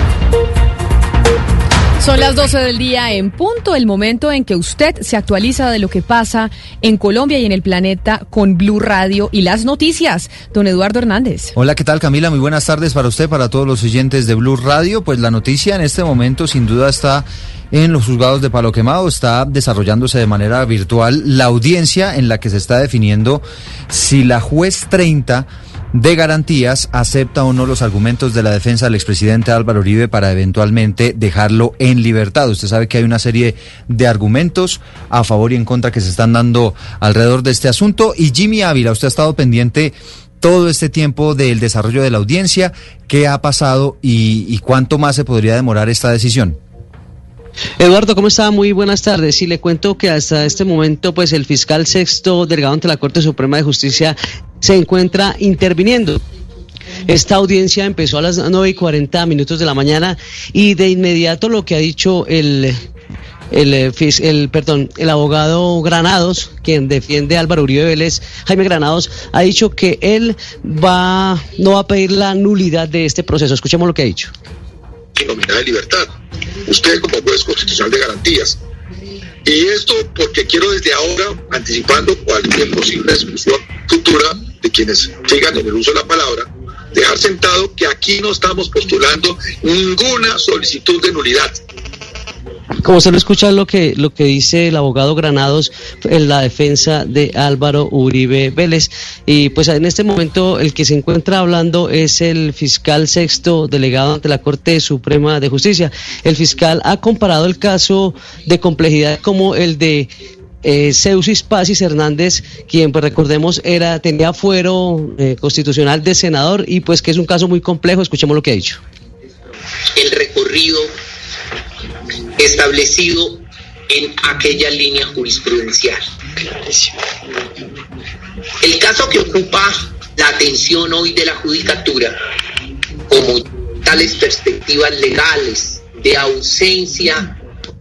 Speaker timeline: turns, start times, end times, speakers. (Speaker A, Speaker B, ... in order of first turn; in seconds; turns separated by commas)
Speaker A: 2.0-11.5, Speaker B: 11.6-46.6, Speaker C: 47.8-56.2, Speaker C: 57.0-62.8, Speaker C: 63.5-74.3, Speaker D: 75.2-76.1, Speaker D: 76.7-78.6, Speaker D: 79.5-91.6, Speaker C: 92.8-110.1, Speaker C: 110.6-118.8, Speaker E: 120.0-120.9, Speaker E: 122.4-126.0, Speaker E: 128.6-132.2, Speaker E: 133.1-137.3